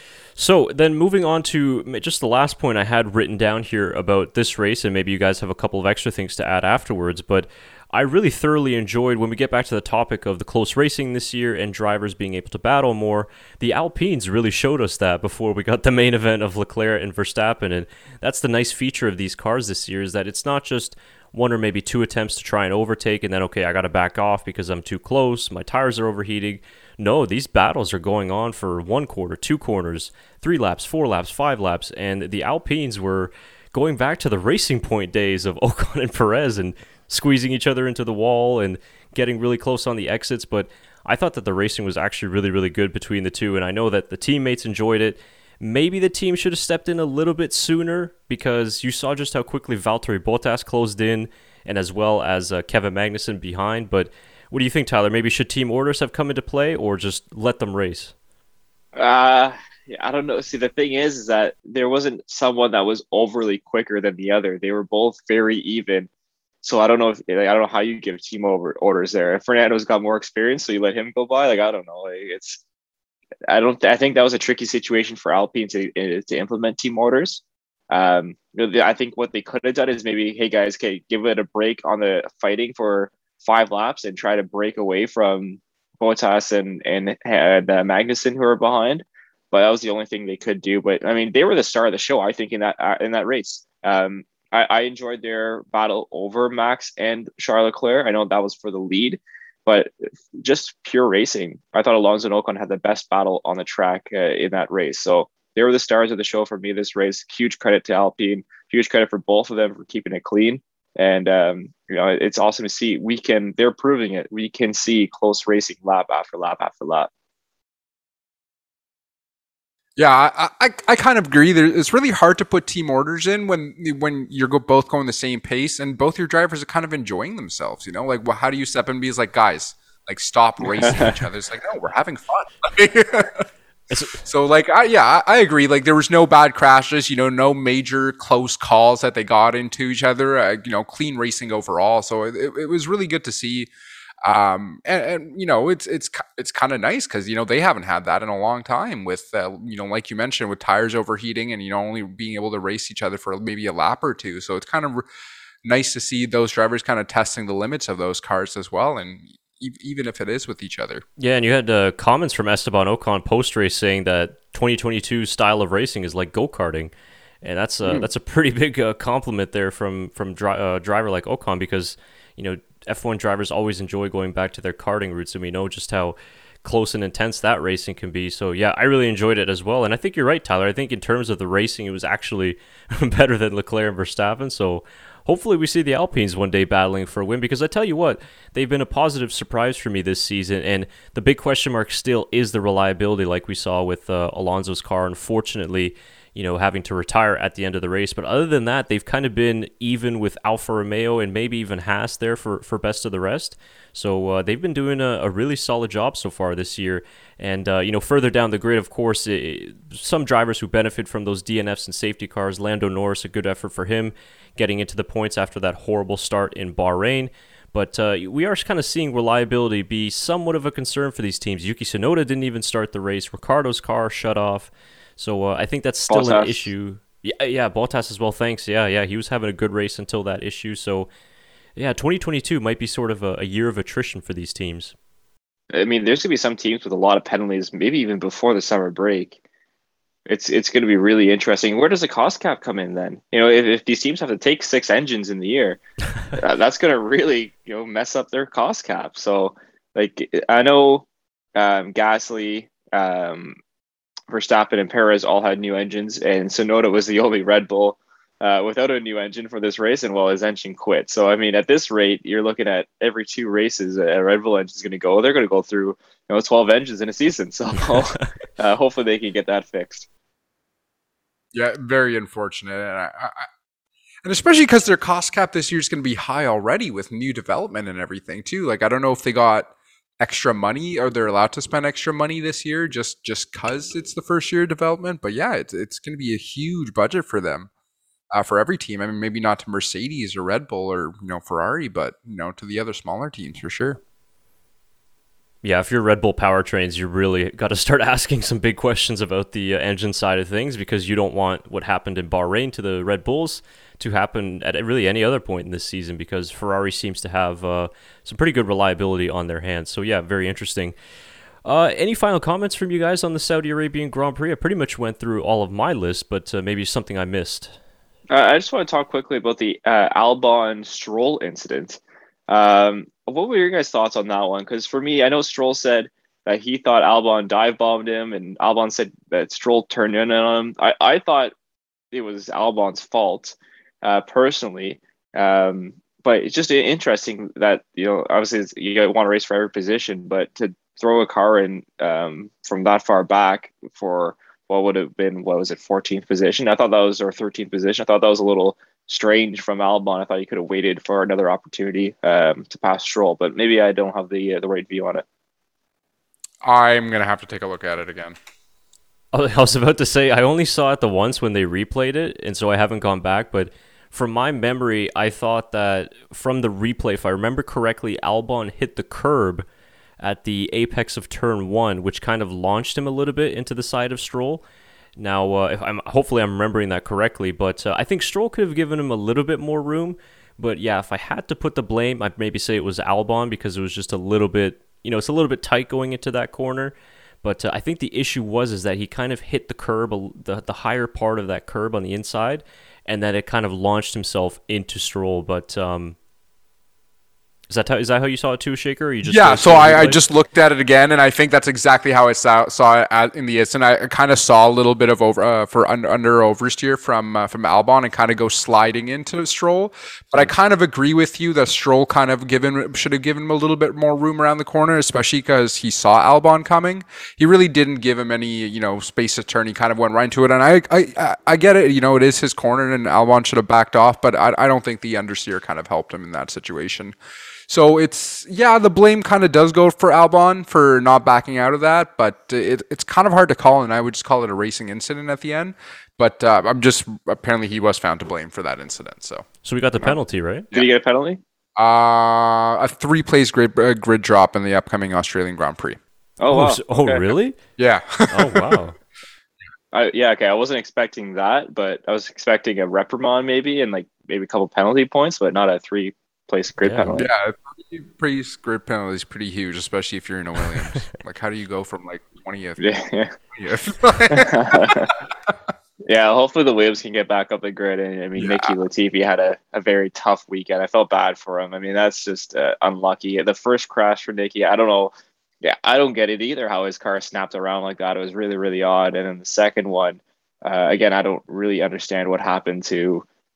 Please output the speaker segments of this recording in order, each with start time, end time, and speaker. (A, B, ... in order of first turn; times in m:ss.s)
0:00.3-0:58.1 A
0:59.0-1:06.1 B
1:06.6-1:12.6 B
1:13.5-1:57.1 B
2:00.0-2:13.5 C
2:10.8-2:11.1 B
2:13.9-2:14.2 A
2:14.1-2:23.7 C
2:24.2-2:35.1 C
2:35.6-2:41.0 C
2:41.2-2:46.9 A
2:47.4-3:51.1 A
3:46.1-3:46.6 B
3:51.8-3:55.0 A
3:55.7-3:59.4 B
4:00.3-4:05.8 B
4:06.3-4:13.6 B
4:14.3-4:30.1 B
4:31.5-4:33.5 C
4:34.2-4:47.7 C
4:48.3-4:54.0 C
4:55.6-5:11.0 A
5:11.6-5:17.8 A
5:18.3-5:31.5 B
5:32.1-5:55.2 B
5:56.6-5:58.4 C
5:59.3-6:09.7 A
6:10.2-6:14.6 A
6:15.2-6:36.2 A
6:37.7-6:40.2 A
6:39.3-7:07.2 C
7:07.7-7:19.5 C
7:19.6-7:20.7 A
7:20.7-7:21.4 B
7:21.8-7:26.0 C
7:26.4-7:27.3 B
7:26.5-7:27.6 A
7:27.8-7:28.8 C
7:28.3-7:29.0 A
7:29.9-7:37.3 B
7:36.8-7:37.2 A
7:37.2-7:42.8 C
7:42.8-7:43.4 B
7:43.5-7:45.1 C
7:44.3-7:45.2 B
7:46.0-7:55.1 B
7:48.4-7:48.8 C
7:55.6-8:03.2 B